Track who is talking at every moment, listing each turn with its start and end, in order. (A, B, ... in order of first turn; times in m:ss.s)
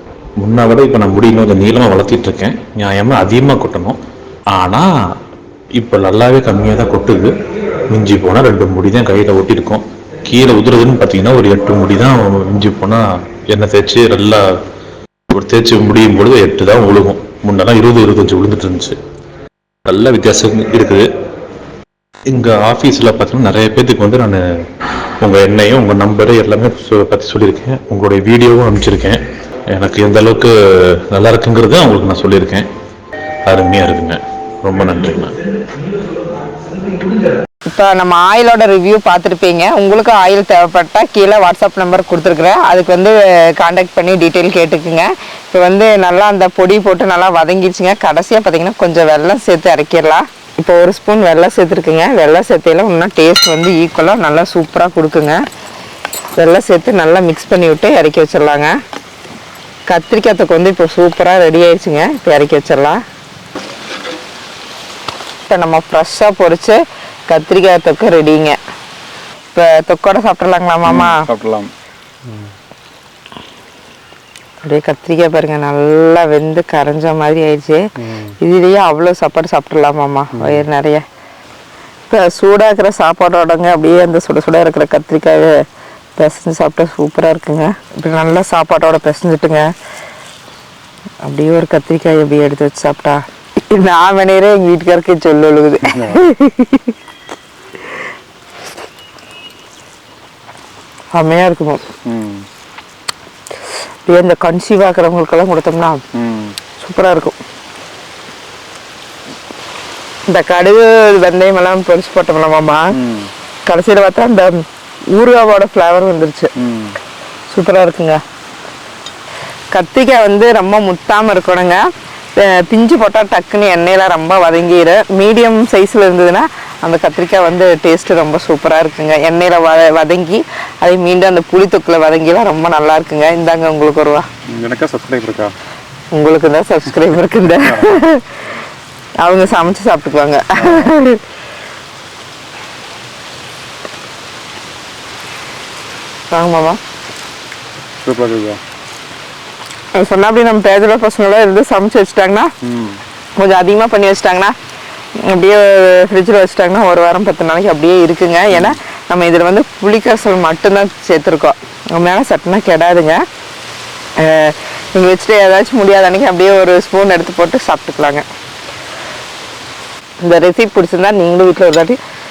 0:00.4-0:04.0 A
0:04.5-0:04.9 A
0:05.8-0:07.3 A
0:07.9-0:14.6 A
0:15.3-0:19.0 A
0:19.8-0:21.1 A
0:22.3-0:24.4 A
0:25.2-0:32.7 A
0:33.4-0:35.4 A
0:37.7-0:55.4 B
0:56.3-0:58.8 B
0:59.9-1:03.0 B
1:05.5-1:08.6 B
1:09.5-1:11.2 B
1:10.8-1:11.7 C
1:14.6-1:17.8 B
1:18.0-1:18.3 C
1:18.4-1:21.0 B
1:20.3-1:20.6 C
1:22.1-1:25.6 B
1:26.2-1:29.7 B
1:31.2-1:36.9 B
1:35.8-1:36.2 C
1:41.1-1:41.8 B
1:42.0-1:42.4 C
1:44.0-1:46.0 B
1:46.1-1:46.5 C
1:46.8-1:47.4 B
1:50.3-1:52.9 B
1:52.9-1:53.3 C
1:53.6-1:56.5 B
1:56.6-1:57.0 C
1:57.5-1:58.2 B
1:59.7-2:01.8 B
2:02.4-2:14.3 B
2:14.5-2:15.5 C
2:16.1-2:18.2 B
2:17.6-2:17.9 C
2:19.2-2:21.2 B
2:20.6-2:20.9 C
2:26.3-2:26.8 B
2:28.0-2:28.6 C
2:29.9-2:32.5 B
2:32.6-2:33.0 C
2:33.4-2:34.5 B
2:35.2-2:43.2 B
2:38.5-2:38.8 C
2:44.2-2:48.2 B
2:50.2-2:52.0 B